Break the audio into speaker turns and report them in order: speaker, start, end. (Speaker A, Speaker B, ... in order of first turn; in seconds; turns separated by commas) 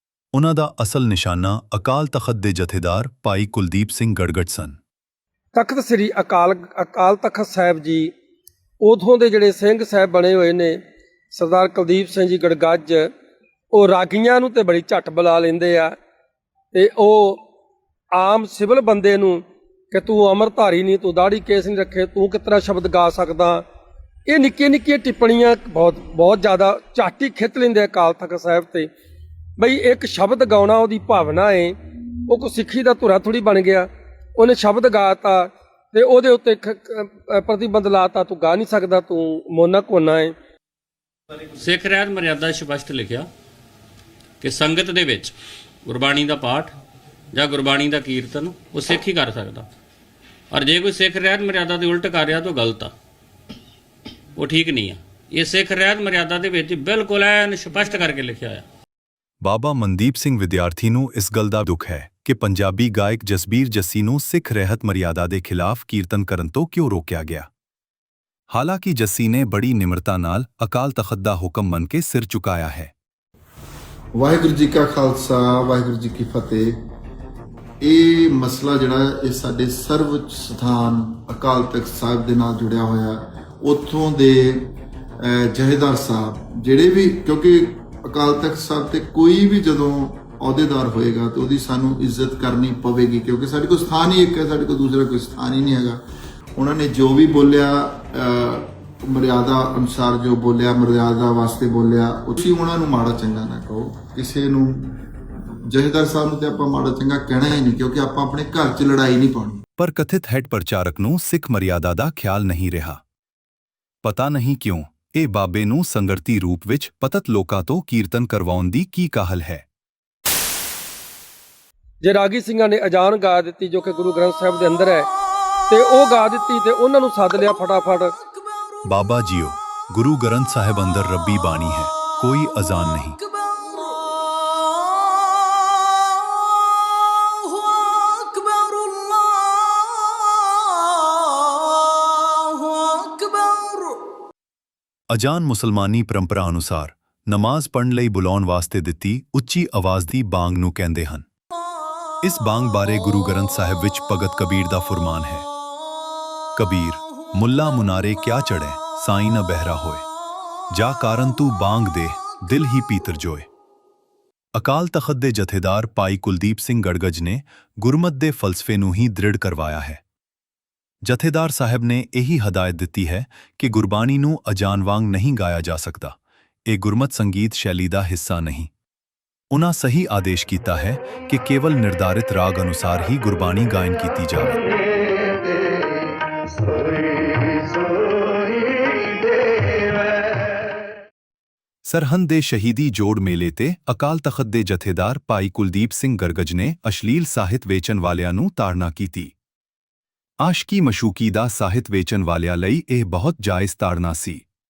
Speaker A: 0.3-4.8, Speaker B: 5.5-8.1, Speaker B: 8.8-10.8, Speaker B: 11.3-13.1, Speaker B: 13.7-16.0, Speaker B: 16.7-17.4, Speaker B: 18.1-23.6, Speaker B: 24.3-28.9, Speaker B: 29.6-31.8, Speaker B: 32.3-40.3, Speaker C: 41.5-43.3, Speaker C: 44.4-45.3, Speaker C: 45.8-46.7, Speaker C: 47.3-49.7, Speaker C: 50.5-52.9, Speaker C: 54.4-58.7, Speaker A: 59.4-67.5, Speaker A: 68.5-72.9, Speaker D: 74.2-76.8, Speaker D: 77.8-96.0, Speaker D: 96.5-109.6, Speaker A: 109.8-113.0, Speaker A: 114.0-119.7, Speaker B: 122.0-125.1, Speaker B: 125.7-128.2, Speaker A: 128.8-133.2, Speaker A: 145.1-151.3, Speaker A: 152.2-155.5, Speaker A: 156.6-160.1, Speaker A: 160.7-163.5, Speaker A: 164.5-170.0, Speaker A: 171.0-176.2, Speaker A: 176.7-178.7, Speaker A: 179.5-184.6, Speaker A: 191.9-199.3, Speaker A: 200.4-204.4